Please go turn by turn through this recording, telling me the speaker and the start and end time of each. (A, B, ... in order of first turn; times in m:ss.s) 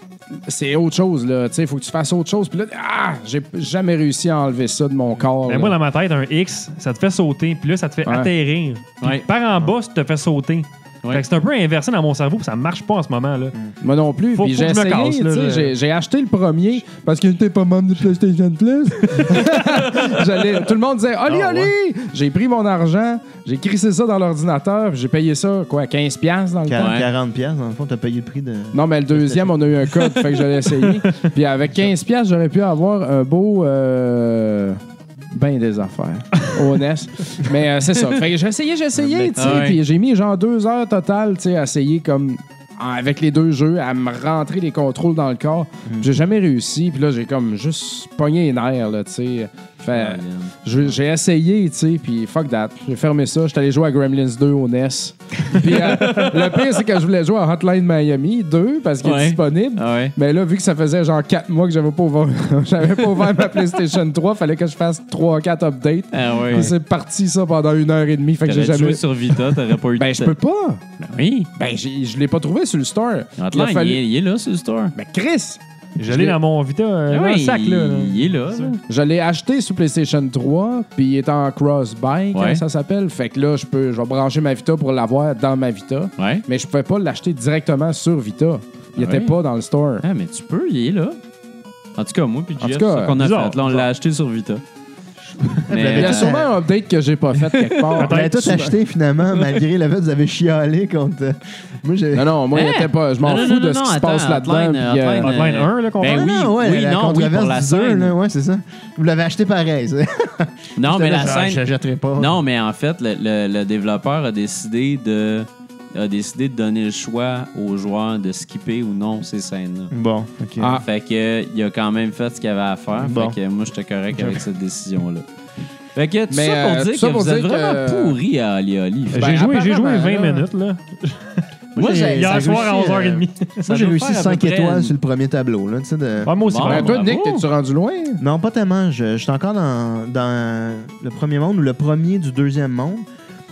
0:00.5-0:05.8 A
0:05.5-0:13.6 B
0:08.0-0:08.3 A
0:13.8-0:26.9 A
0:14.3-0:15.7 B
0:19.8-0:20.2 B
0:21.3-0:21.7 C
0:26.7-0:29.5 C
0:26.8-0:27.1 D
0:28.7-0:34.8 A
0:35.3-1:10.8 A
0:39.0-0:39.7 C
0:39.4-0:39.8 D
0:49.9-0:50.6 D
0:55.9-0:56.3 D
0:59.0-1:00.1 D
1:06.1-1:06.7 D
1:08.4-1:10.4 D
1:11.0-1:11.5 D
1:11.6-1:14.0 A
1:13.4-1:14.9 D
1:15.0-1:16.4 A
1:16.0-1:18.7 B
1:17.1-1:18.8 D
1:18.9-1:30.0 A
1:22.3-1:22.6 D
1:26.2-1:26.4 D
1:29.0-1:29.3 D
1:30.0-1:31.2 D
1:32.0-1:34.6 D
1:32.6-1:33.2 A
1:33.2-1:33.9 B
1:35.7-1:36.5 C
1:35.7-1:36.4 D
1:35.9-1:38.8 A
1:37.4-1:37.9 D
1:38.0-1:38.7 B
1:38.0-1:42.3 C
1:42.1-1:45.3 A
1:42.5-1:48.2 D
1:45.2-1:46.3 B
1:46.0-1:52.4 C
1:50.8-1:51.6 D
1:52.2-1:59.9 D
1:59.9-2:00.8 C
2:00.6-2:00.8 A
2:00.6-2:05.2 D
2:03.0-2:03.4 C
2:04.1-2:04.4 C
2:06.0-2:09.4 D
2:06.3-2:08.2 A
2:09.1-2:13.6 B
2:09.1-2:10.5 A
2:11.8-2:12.8 D
2:11.8-2:16.4 C
2:13.6-2:14.9 D
2:16.2-2:17.0 B
2:16.4-2:17.5 D
2:16.7-2:18.2 A
2:18.2-2:23.0 C